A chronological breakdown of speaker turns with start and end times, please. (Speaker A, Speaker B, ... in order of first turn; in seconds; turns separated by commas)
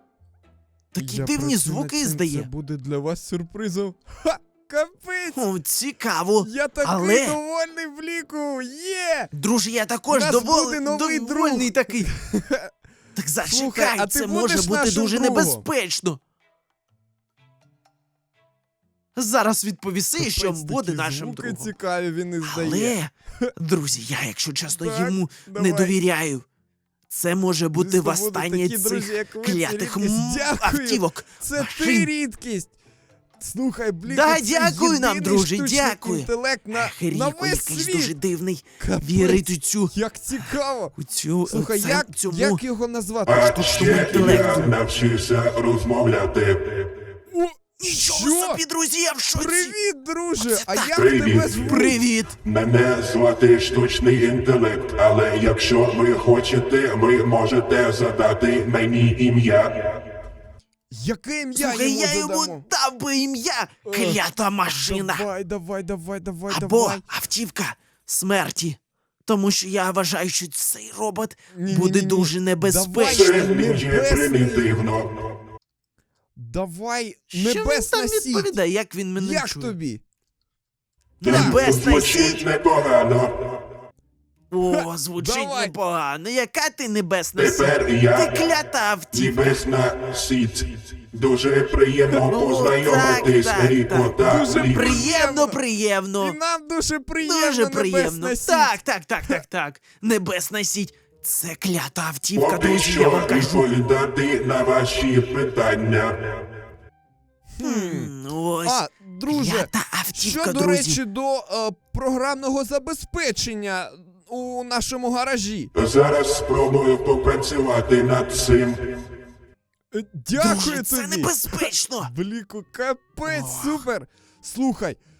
Speaker A: 0.9-2.5, Speaker B: 1.0-5.4, Speaker A: 5.3-7.4, Speaker B: 6.4-9.3, Speaker A: 9.3-12.1, Speaker B: 10.1-12.7, Speaker A: 13.1-16.2, Speaker B: 13.4-15.7, Speaker A: 19.1-21.7, Speaker B: 20.2-23.5, Speaker A: 22.4-26.4, Speaker B: 24.7-25.9, Speaker A: 27.1-32.1, Speaker B: 27.7-32.7, Speaker B: 33.4-38.1, Speaker A: 34.1-39.9, Speaker B: 38.8-40.9, Speaker A: 41.0-42.6, Speaker B: 41.5-44.7, Speaker C: 43.2-46.9, Speaker A: 43.5-44.7, Speaker B: 47.3-48.6, Speaker A: 47.8-49.7, Speaker B: 49.3-52.0, Speaker A: 50.4-51.0, Speaker C: 50.9-60.0, Speaker A: 51.6-52.4, Speaker B: 60.9-62.6, Speaker A: 61.5-65.2, Speaker B: 63.8-64.2, Speaker B: 64.7-67.0, Speaker A: 66.5-73.5, Speaker B: 71.5-74.7, Speaker C: 73.0-75.3, Speaker B: 76.3-78.5, Speaker A: 77.3-79.7, Speaker B: 79.2-80.0, Speaker A: 81.2-82.5, Speaker B: 81.2-81.8, Speaker C: 81.2-83.6, Speaker A: 84.5-89.6, Speaker B: 84.7-85.7, Speaker C: 87.4-88.5, Speaker C: 89.1-95.1, Speaker A: 92.3-96.3, Speaker B: 94.2-95.6, Speaker B: 96.2-99.4, Speaker A: 97.2-103.7, Speaker C: 102.3-106.4, Speaker B: 107.5-108.1, Speaker A: 107.6-111.0, Speaker B: 108.6-115.7, Speaker C: 115.7-118.9, Speaker B: 119.9-125.0, Speaker A: 120.3-122.1, Speaker A: 123.2-123.8